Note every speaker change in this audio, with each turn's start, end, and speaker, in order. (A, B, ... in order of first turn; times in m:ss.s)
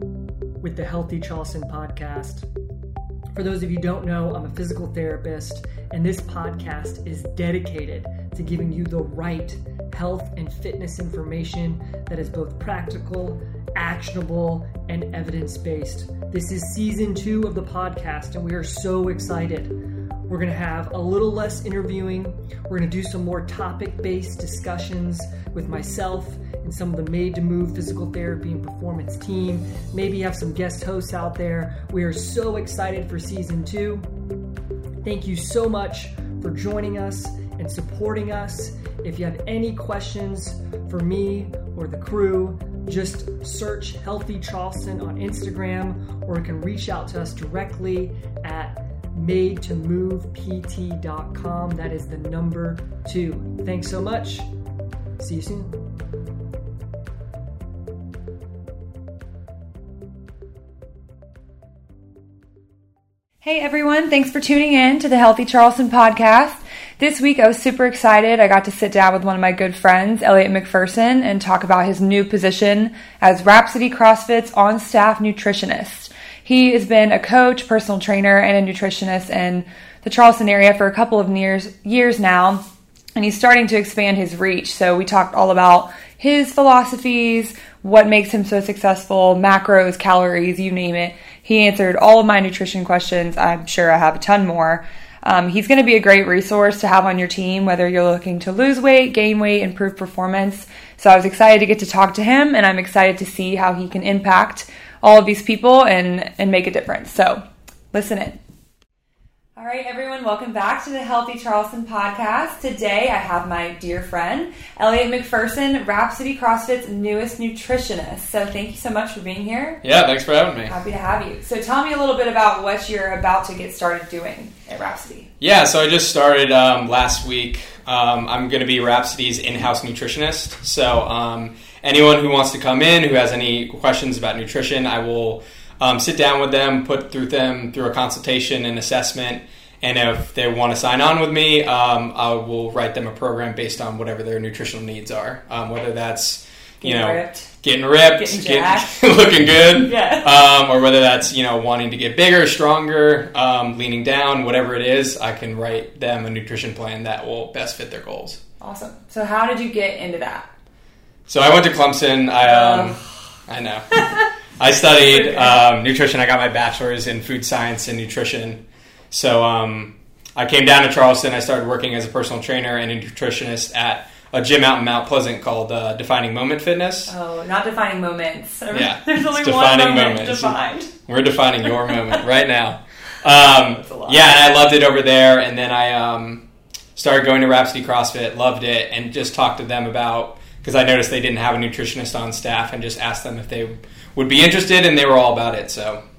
0:00.6-0:02.4 A
0:03.4-0:34.1 A
0:35.0-0:54.5 A
0:55.2-0:55.8 A
1:03.4-1:22.6 B
1:23.2-1:48.4 B
1:49.6-1:59.8 B
1:59.8-2:00.8 C
2:00.7-2:05.3 B
2:05.4-2:38.4 C
2:26.8-2:27.5 B
2:28.2-2:28.9 B
2:29.8-2:30.3 B
2:38.6-2:40.5 B
2:41.3-2:44.0 C
2:42.4-2:43.1 B
2:44.6-2:57.1 C
2:45.1-2:45.6 B
2:57.1-3:00.9 B
2:58.7-3:16.0 C
3:03.4-3:04.4 B